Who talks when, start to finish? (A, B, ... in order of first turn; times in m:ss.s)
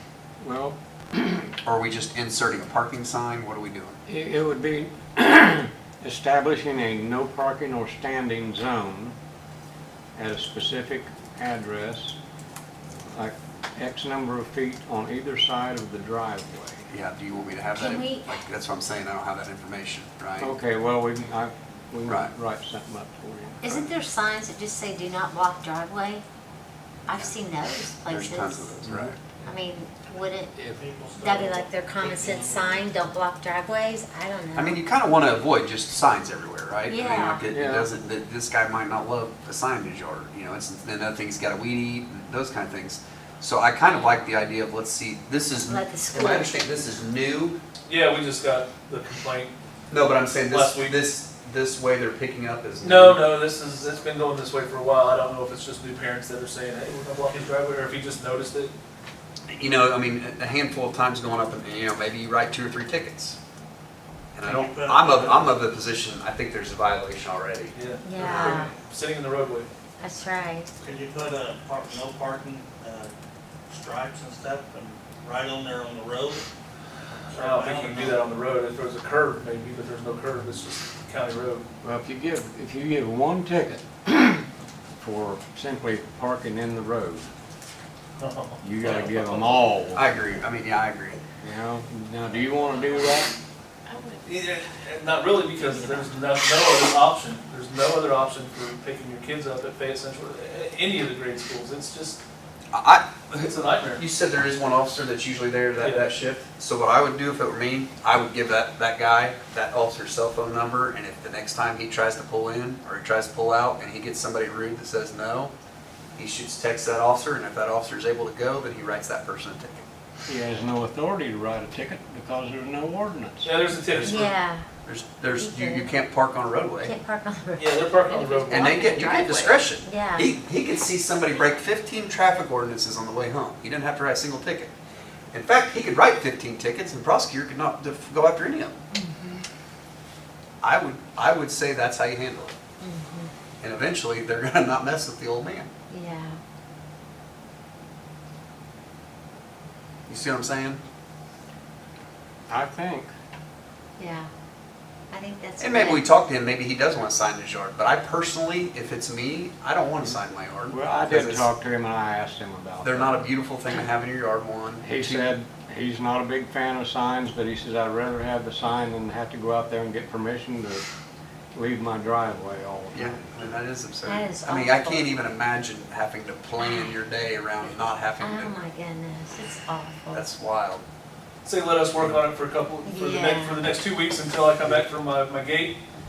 0:00.4-0:01.5 A
0:01.6-0:04.0 B
0:04.1-0:09.1 A
0:10.2-0:12.2 A
0:13.1-0:16.8 A
0:16.9-0:20.5 B
0:17.8-0:18.2 C
0:20.4-0:23.6 A
0:23.6-0:26.2 C
0:27.1-0:28.8 C
0:28.1-0:29.2 B
0:28.9-0:29.5 A
0:29.4-0:30.5 C
0:30.6-0:30.8 A
0:30.7-0:32.9 D
0:31.2-0:34.8 C
0:34.5-0:47.6 B
0:36.9-0:37.4 C
0:37.5-0:37.9 A
0:45.6-0:46.6 C
0:47.9-0:49.5 E
0:49.9-0:53.3 B
0:50.5-0:51.0 E
0:52.8-0:58.7 E
0:59.5-1:03.4 B
1:04.3-1:08.6 B
1:04.4-1:05.5 D
1:07.7-1:09.7 E
1:08.0-1:08.7 C
1:10.0-1:10.7 C
1:10.8-1:13.1 D
1:13.7-1:16.5 D
1:17.3-1:18.3 D
1:17.4-1:21.6 E
1:21.8-1:24.5 A
1:25.0-1:27.3 A
1:28.2-1:29.5 E
1:28.6-1:30.1 A
1:29.9-1:31.2 B
1:31.4-1:33.3 A
1:34.2-1:42.2 E
1:42.7-1:55.5 B
1:43.3-1:44.0 E
1:45.8-1:46.1 E
1:56.2-1:59.8 B
2:00.3-2:03.6 A
2:03.4-2:04.3 E
2:04.0-2:04.3 B
2:04.0-2:04.6 C
2:04.8-2:06.9 B
2:05.4-2:05.9 C
2:06.8-2:10.3 C
2:07.6-2:09.1 E
2:08.5-2:14.7 B
2:15.3-2:18.8 B
2:18.9-2:19.4 C
2:20.6-2:22.6 B
2:22.8-2:23.3 C
2:23.6-2:25.7 B
2:25.9-2:26.4 C
2:30.1-2:30.8 B
2:32.5-2:33.1 A
2:34.0-2:34.3 C
2:35.1-2:36.0 C
2:35.6-2:41.5 B
2:40.7-2:43.2 A
2:42.8-2:45.3 B
2:44.8-2:50.8 A
2:51.5-2:53.4 A
2:52.9-2:58.6 B
2:54.0-2:55.1 C
2:56.6-2:56.9 C
2:58.2-3:00.3 C
3:00.1-3:00.8 B
3:01.4-3:05.8 E
3:02.8-3:03.6 C